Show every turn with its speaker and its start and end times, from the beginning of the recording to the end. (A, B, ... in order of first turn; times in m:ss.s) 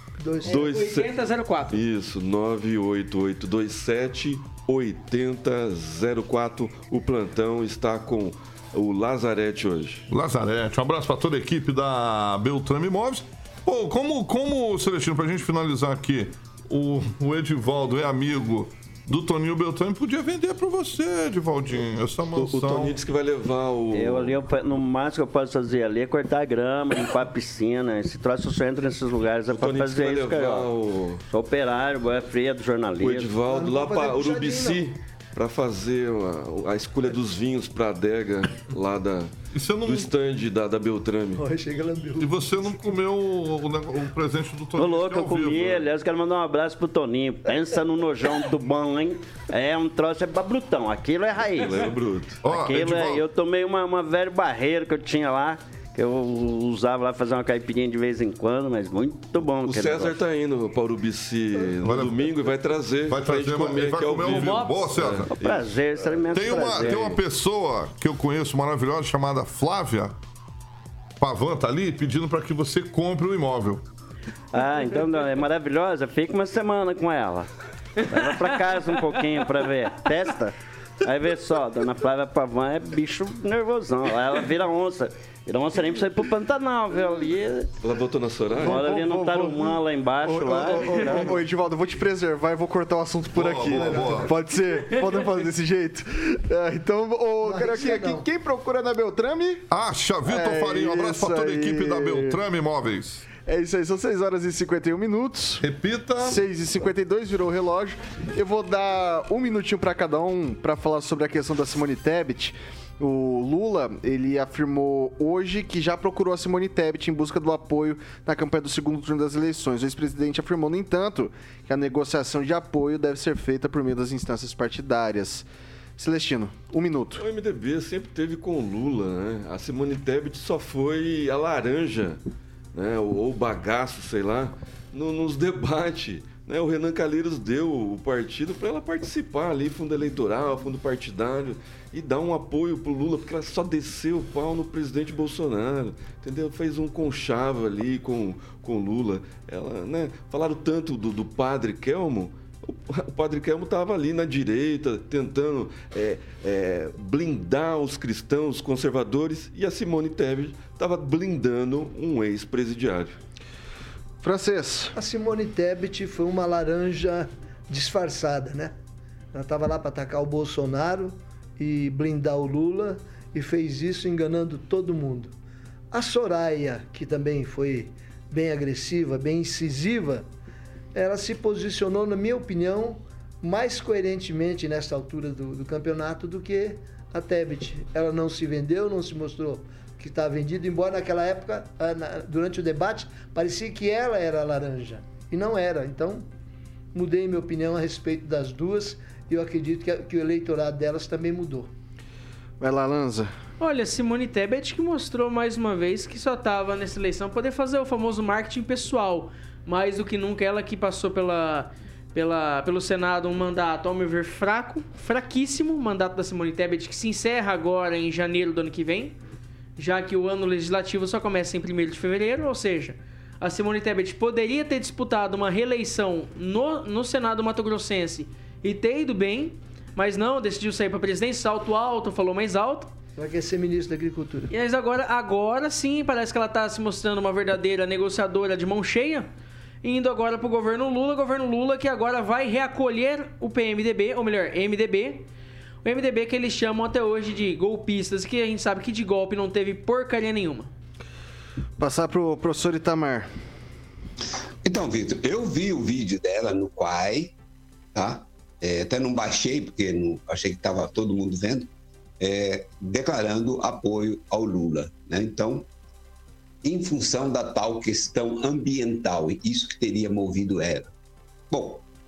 0:00.2-0:00.6 A
0:00.4-0:10.0 B
0:00.4-0:01.8 C
0:10.1-0:23.0 D
0:22.4-0:24.4 B
0:23.9-0:30.7 E
0:29.5-0:31.2 B
0:31.3-0:33.3 E
0:33.0-0:39.3 B
0:33.4-0:34.8 A
0:39.5-0:40.1 D
0:39.8-0:41.4 B
0:41.4-0:42.8 A
0:42.2-0:45.9 D
0:44.8-0:51.8 E
0:51.5-0:52.4 B
0:52.4-0:53.2 D
0:52.4-1:00.2 E
0:59.6-1:05.7 B
1:01.8-1:02.3 D
1:03.1-1:05.3 D
1:04.3-1:05.2 C
1:05.4-1:07.2 E
1:06.3-1:10.2 D
1:06.8-1:07.0 B
1:11.2-1:13.8 D
1:14.5-1:17.5 E
1:18.0-1:27.7 E
1:18.1-1:18.4 C
1:27.8-1:28.9 B
1:28.6-1:39.6 F
1:28.6-1:31.4 E
1:33.3-1:34.3 D
1:37.4-1:38.2 A
1:39.7-1:43.3 D
1:40.2-1:42.4 F
1:43.4-1:45.6 F
1:45.6-1:46.4 D
1:46.2-2:05.5 F
2:06.0-2:07.2 F
2:07.2-2:12.2 B
2:12.7-2:43.2 B
2:44.2-2:44.9 F
2:44.9-2:48.7 A
2:49.3-2:55.3 A
2:55.9-3:00.2 A
3:00.9-3:16.2 A
3:16.9-3:21.7 A
3:22.6-3:23.3 F
3:23.6-3:39.2 C
3:39.8-3:52.9 C
3:53.2-3:54.5 A
3:54.5-3:59.3 C
3:59.8-4:05.2 C
4:05.8-4:10.7 C
4:11.8-4:13.3 F
4:14.6-4:17.3 G
4:17.9-4:21.7 G
4:22.2-4:25.6 G
4:26.6-4:30.9 G
4:31.5-4:31.8 G